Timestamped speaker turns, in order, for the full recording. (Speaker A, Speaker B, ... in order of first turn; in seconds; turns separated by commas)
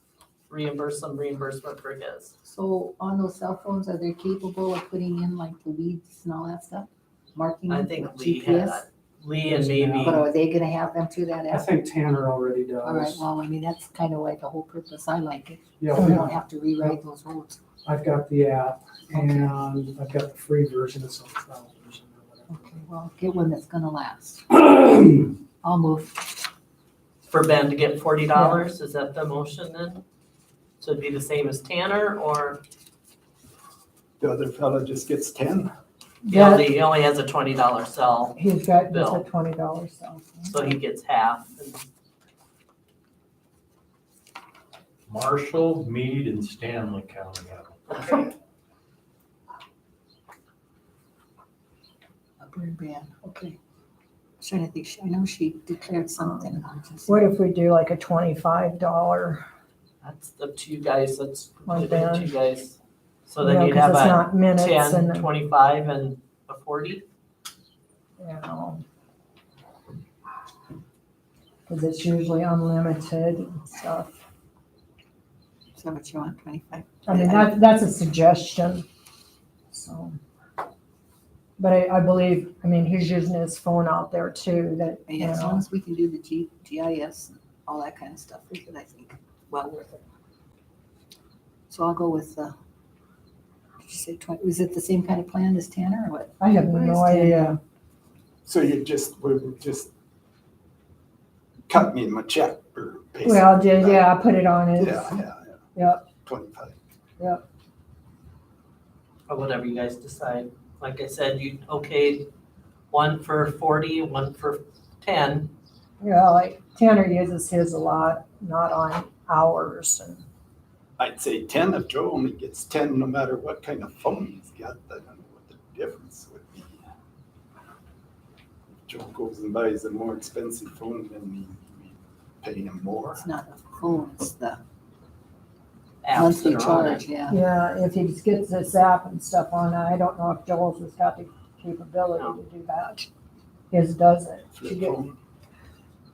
Speaker A: 0.5-2.4, Speaker B: 2.4-8.9, Speaker A: 7.7-10.2, Speaker C: 9.4-10.2, Speaker B: 10.0-11.7, Speaker C: 11.5-13.3, Speaker B: 12.8-17.6, Speaker C: 15.8-16.9, Speaker C: 17.9-22.8, Speaker B: 19.1-19.5, Speaker B: 22.5-26.4, Speaker A: 27.3-30.0, Speaker D: 28.4-28.7, Speaker A: 30.8-32.6, Speaker E: 34.2-35.7, Speaker D: 36.2-36.7, Speaker A: 36.3-39.2, Speaker D: 38.4-40.8, Speaker A: 40.5-41.9, Speaker F: 45.1-48.3, Speaker B: 52.4-53.6, Speaker B: 54.4-57.3, Speaker D: 56.2-56.5, Speaker D: 57.1-59.4, Speaker A: 60.0-67.0, Speaker D: 61.7-62.3, Speaker D: 63.4-65.3, Speaker D: 68.2-68.8, Speaker D: 71.7-74.2, Speaker B: 75.8-77.5, Speaker D: 77.1-78.9, Speaker D: 79.7-80.2, Speaker D: 81.6-85.6, Speaker B: 85.1-90.0, Speaker B: 91.7-92.5, Speaker B: 93.8-97.6, Speaker D: 96.4-97.6, Speaker E: 98.5-99.9, Speaker E: 101.7-104.1, Speaker D: 103.2-105.2, Speaker E: 104.8-105.6, Speaker D: 105.8-106.0, Speaker E: 106.2-106.8, Speaker A: 109.3-112.3, Speaker A: 112.9-115.5, Speaker D: 116.0-120.3, Speaker E: 121.0-126.8, Speaker E: 128.9-133.2, Speaker B: 133.1-134.6, Speaker A: 136.0-137.1, Speaker B: 136.1-137.4, Speaker D: 137.3-143.1, Speaker D: 143.7-145.0, Speaker E: 144.6-145.2